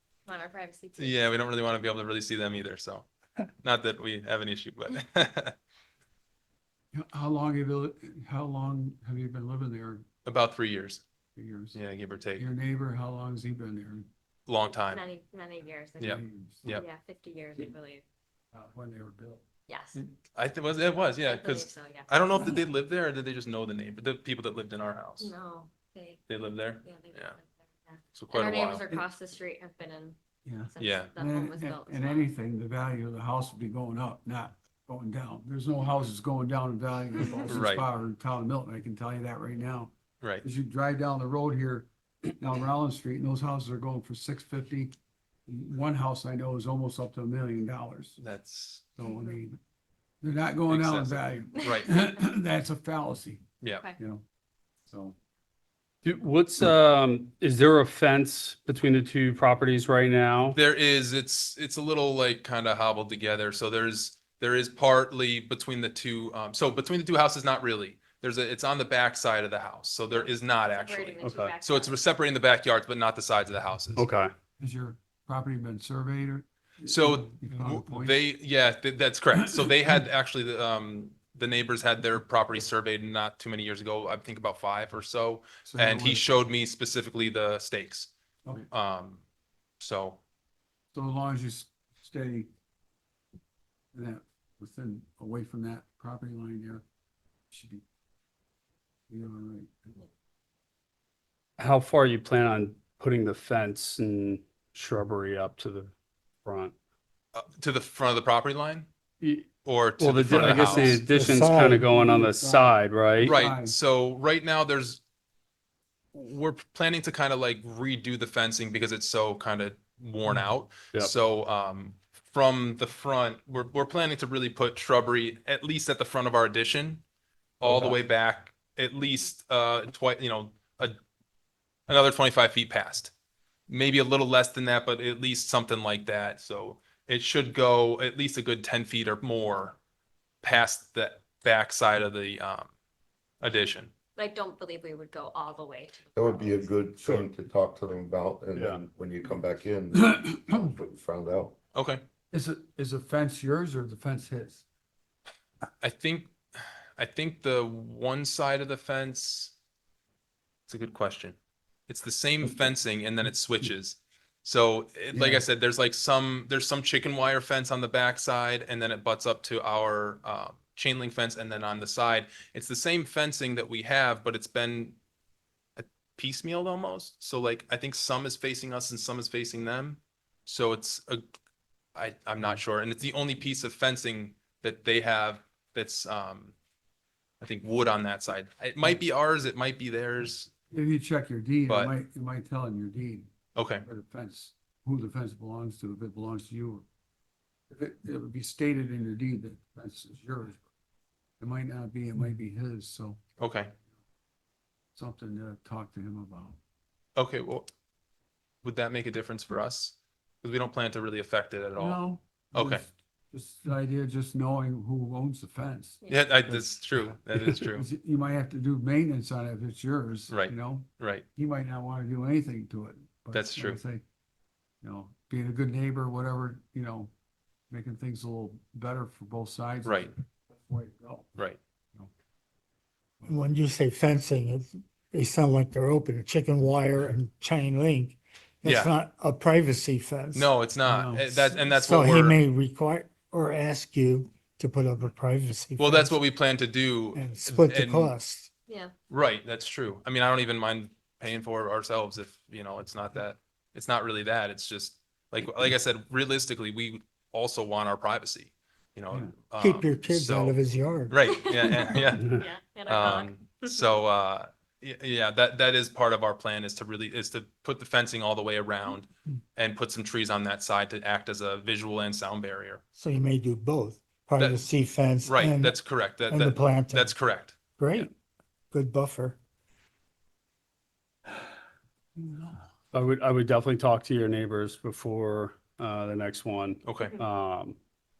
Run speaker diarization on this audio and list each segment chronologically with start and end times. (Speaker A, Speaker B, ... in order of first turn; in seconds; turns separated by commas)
Speaker A: 0.3-1.2, Speaker B: 1.0-3.1, Speaker B: 3.6-5.6, Speaker C: 6.9-10.1, Speaker B: 10.2-11.0, Speaker C: 11.4-11.8, Speaker B: 11.7-12.5, Speaker C: 12.4-14.1, Speaker B: 14.5-15.0, Speaker A: 14.9-18.0, Speaker C: 16.0-16.6, Speaker B: 16.0-16.9, Speaker C: 18.5-19.4, Speaker A: 19.7-20.0, Speaker B: 20.3-25.3, Speaker A: 21.2-22.1, Speaker A: 25.2-26.2, Speaker B: 26.3-27.4, Speaker A: 26.8-30.2, Speaker B: 28.1-28.9, Speaker C: 30.4-39.9, Speaker A: 30.7-32.3, Speaker B: 30.8-31.1, Speaker B: 37.5-37.9, Speaker C: 40.4-45.0, Speaker C: 45.5-48.2, Speaker B: 48.2-48.8, Speaker C: 49.0-49.6, Speaker C: 50.2-53.5, Speaker B: 50.7-52.0, Speaker C: 54.9-55.2, Speaker D: 56.0-60.6, Speaker B: 60.5-74.1, Speaker A: 70.1-72.0, Speaker D: 71.2-71.5, Speaker D: 74.0-74.3, Speaker C: 74.6-78.2, Speaker B: 76.9-88.1, Speaker C: 85.7-86.3, Speaker B: 88.7-89.2, Speaker B: 89.8-90.2, Speaker C: 90.9-92.5, Speaker C: 93.9-96.8, Speaker C: 97.5-97.8, Speaker C: 99.1-100.0, Speaker D: 101.6-105.9, Speaker D: 106.5-106.8, Speaker B: 107.3-108.9, Speaker D: 109.2-113.3, Speaker B: 109.7-111.0, Speaker C: 110.3-113.8, Speaker E: 111.2-111.8, Speaker B: 113.2-115.0, Speaker B: 116.1-127.0, Speaker B: 127.6-131.0, Speaker D: 127.6-128.0, Speaker B: 131.9-133.1, Speaker B: 133.7-139.8, Speaker B: 140.4-142.7, Speaker B: 143.4-143.9, Speaker A: 144.2-146.7, Speaker F: 146.2-151.6, Speaker D: 148.6-148.8, Speaker C: 149.9-150.6, Speaker B: 151.7-152.0, Speaker C: 152.3-154.7, Speaker B: 155.8-156.3, Speaker B: 157.0-159.5, Speaker B: 160.7-161.4, Speaker B: 161.9-175.0, Speaker C: 165.1-165.4, Speaker B: 175.8-181.2, Speaker B: 181.9-186.6, Speaker B: 187.4-190.5, Speaker C: 190.7-193.3, Speaker B: 191.7-191.9, Speaker B: 193.6-193.8, Speaker C: 193.8-196.9, Speaker C: 197.7-200.6, Speaker C: 201.4-203.2, Speaker B: 203.4-203.7, Speaker C: 205.0-206.6, Speaker B: 207.2-207.7, Speaker B: 208.6-212.0, Speaker C: 211.8-224.0, Speaker B: 212.5-212.8, Speaker B: 216.1-217.9, Speaker B: 220.3-221.2, Speaker B: 223.3-223.8, Speaker C: 224.8-227.1, Speaker C: 227.7-231.3, Speaker B: 229.8-230.1, Speaker E: 233.3-240.5, Speaker B: 238.6-238.9, Speaker B: 240.3-242.4, Speaker C: 240.9-241.4, Speaker E: 241.5-246.2, Speaker B: 245.8-248.1, Speaker E: 247.1-248.5, Speaker A: 248.7-248.9, Speaker B: 249.1-260.6, Speaker E: 259.6-261.3, Speaker B: 261.1-272.8, Speaker A: 261.3-263.8, Speaker E: 272.9-277.2, Speaker B: 274.4-274.6, Speaker B: 275.2-277.6, Speaker E: 277.8-278.1, Speaker E: 278.7-279.4, Speaker C: 282.2-282.6, Speaker D: 282.9-287.8, Speaker B: 286.9-287.1